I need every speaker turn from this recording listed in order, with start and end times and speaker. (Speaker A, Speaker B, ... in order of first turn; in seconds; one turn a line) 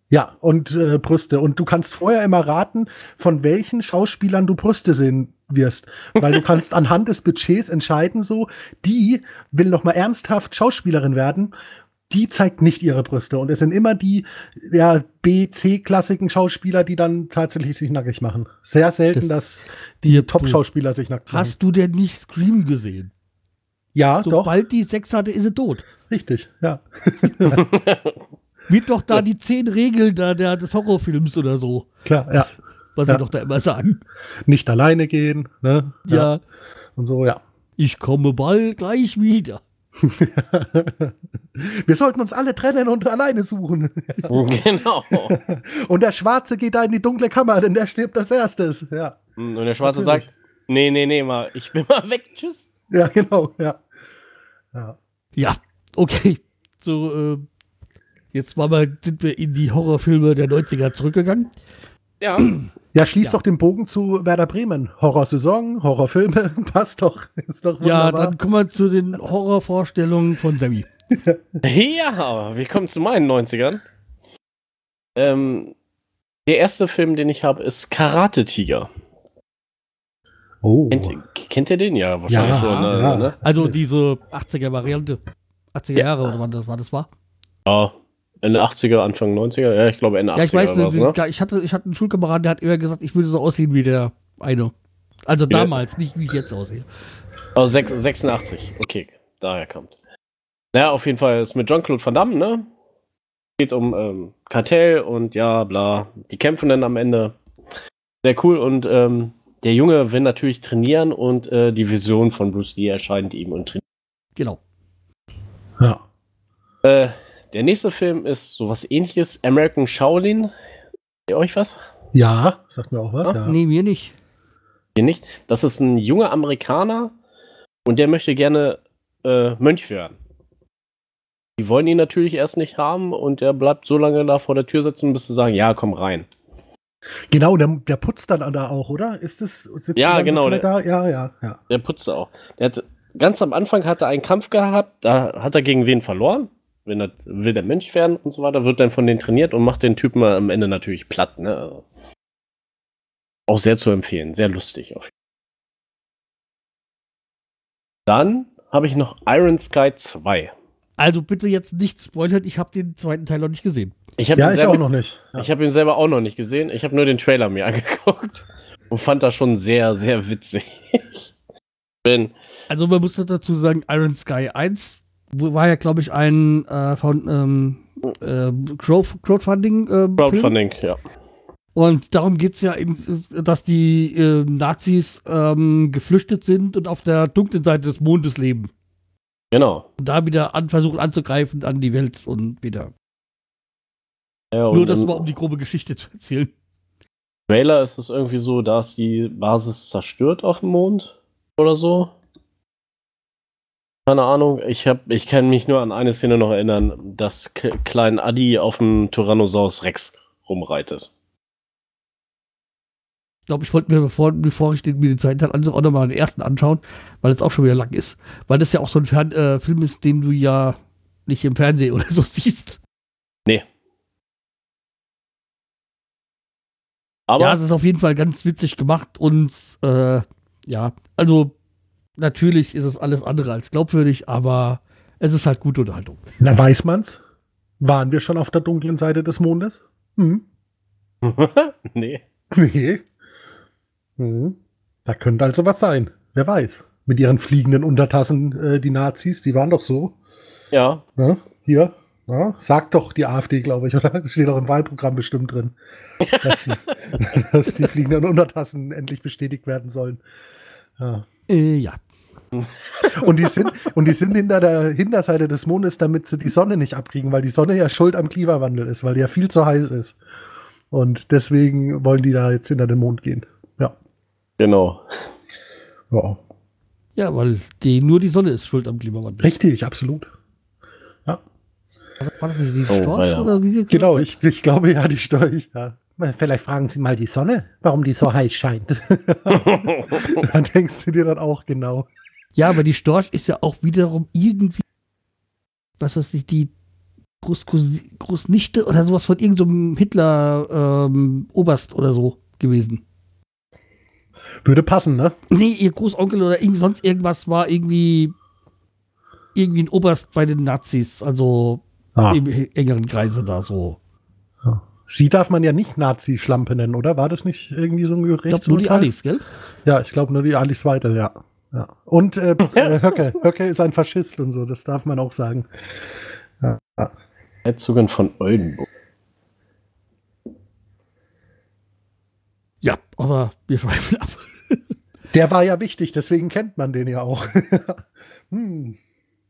Speaker A: 0.1-11.5
Speaker A: 12.1-21.5
Speaker B: 19.1-19.4
Speaker B: 20.0-20.6
Speaker B: 21.3-23.1
Speaker A: 23.9-24.5
Speaker B: 24.2-25.9
Speaker A: 26.1-27.6
Speaker C: 27.5-28.2
Speaker B: 28.7-31.9
Speaker A: 32.0-32.5
Speaker B: 33.0-34.0
Speaker A: 34.4-36.3
Speaker B: 36.1-36.4
Speaker A: 37.0-37.4
Speaker B: 37.8-39.6
Speaker A: 40.0-44.4
Speaker C: 44.3-45.4
Speaker A: 45.2-49.2
Speaker C: 49.4-52.7
Speaker A: 49.8-50.3
Speaker A: 52.9-53.8
Speaker B: 55.4-57.5
Speaker B: 58.3-61.5
Speaker C: 62.2-62.5
Speaker B: 62.4-62.7
Speaker A: 62.9-68.4
Speaker B: 67.8-70.9
Speaker C: 71.6-73.8
Speaker C: 75.2-75.7
Speaker C: 76.5-78.9
Speaker A: 80.6-81.1
Speaker C: 80.9-83.3
Speaker A: 82.3-83.7
Speaker B: 83.4-85.2
Speaker B: 85.7-87.1
Speaker C: 87.7-91.2
Speaker B: 90.3-94.7
Speaker B: 95.3-96.8
Speaker C: 97.5-99.9
Speaker C: 100.7-102.7
Speaker C: 103.6-107.3
Speaker C: 108.2-113.8
Speaker C: 116.8-120.5
Speaker C: 121.3-121.8
Speaker A: 122.1-123.5
Speaker B: 123.4-124.1
Speaker C: 125.0-127.1
Speaker C: 127.8-130.2
Speaker C: 131.6-136.3
Speaker A: 137.3-141.6
Speaker C: 139.9-140.7
Speaker C: 141.7-151.8
Speaker C: 153.5-155.1
Speaker C: 158.1-160.5
Speaker B: 161.0-163.9
Speaker C: 164.2-164.8
Speaker A: 164.3-165.5
Speaker C: 165.3-171.3
Speaker C: 172.0-172.3
Speaker B: 172.7-180.5
Speaker C: 180.2-181.0
Speaker B: 181.7-188.7
Speaker C: 189.5-189.9
Speaker B: 190.0-192.9
Speaker C: 194.5-195.3
Speaker B: 194.7-196.5
Speaker C: 197.5-202.1
Speaker C: 204.1-211.1
Speaker B: 213.5-222.8
Speaker C: 227.3-227.6
Speaker B: 227.4-231.5
Speaker B: 232.2-236.2
Speaker A: 236.4-237.2
Speaker A: 237.8-240.4
Speaker C: 241.2-242.2
Speaker A: 242.5-243.0
Speaker A: 244.2-250.2
Speaker C: 250.7-251.0
Speaker A: 251.2-255.8
Speaker C: 256.2-256.7
Speaker A: 256.4-260.2
Speaker A: 261.0-261.2
Speaker B: 261.5-262.0
Speaker A: 263.0-270.2
Speaker A: 270.9-273.9
Speaker C: 274.6-275.0
Speaker A: 276.1-276.4
Speaker B: 277.1-279.5
Speaker A: 279.4-280.3
Speaker B: 282.2-284.3
Speaker C: 282.9-283.5
Speaker A: 283.9-292.1
Speaker C: 289.5-290.3
Speaker B: 292.6-294.8
Speaker B: 296.0-296.7
Speaker B: 297.4-303.0
Speaker A: 304.6-305.4
Speaker B: 305.5-308.3
Speaker B: 309.5-314.0
Speaker A: 312.1-312.4
Speaker A: 314.6-319.1
Speaker B: 318.5-319.4
Speaker A: 319.9-325.7
Speaker A: 326.6-327.1
Speaker C: 327.6-328.9
Speaker B: 332.8-334.9
Speaker A: 335.3-339.0